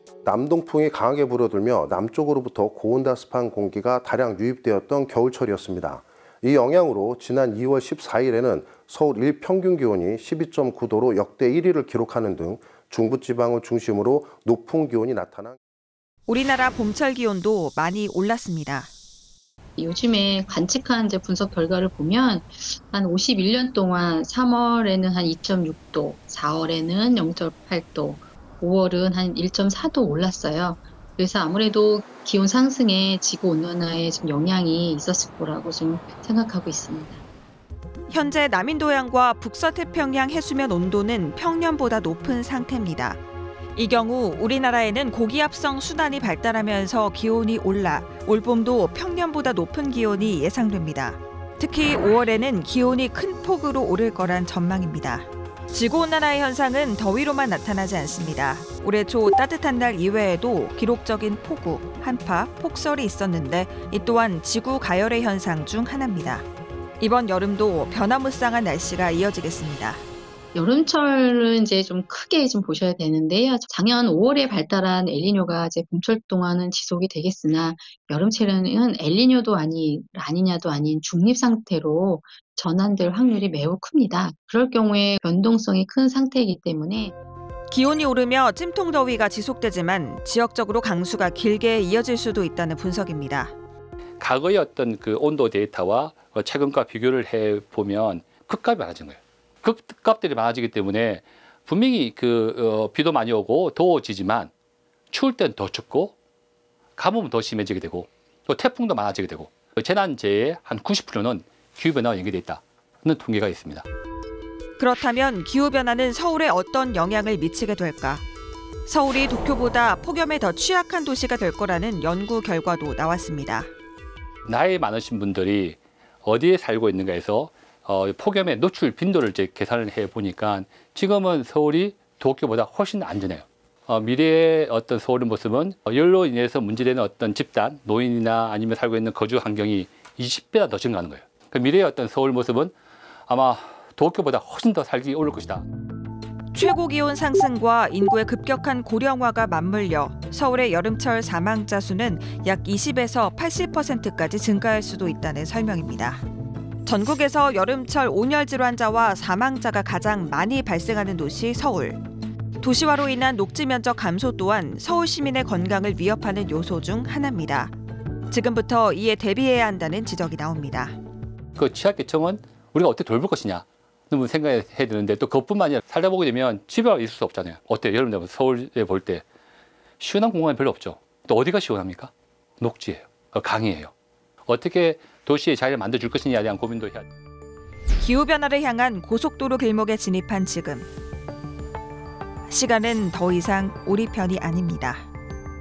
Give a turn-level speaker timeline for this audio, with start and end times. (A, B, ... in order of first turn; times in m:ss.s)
0:00.2-0:15.6 A
0:16.3-0:18.9 B
0:19.8-0:37.2 C
0:38.1-0:43.2 B
0:43.7-1:06.4 B
1:07.0-1:10.0 B
1:10.5-1:27.1 C
1:27.7-1:33.5 B
1:34.2-1:44.5 D
1:45.1-1:46.1 D
1:47.0-1:53.8 D
1:54.8-1:58.2 B
1:58.8-2:03.7 B
2:04.4-2:22.7 D
2:23.3-2:25.6 D
2:26.5-2:36.2 B
2:36.8-2:42.0 B
2:42.6-2:47.7 B
2:48.3-2:50.9 B
2:51.6-2:59.2 D
3:00.0-3:03.9 D
3:04.4-3:07.0 D
3:08.0-3:10.9 B
3:12.5-3:15.1 B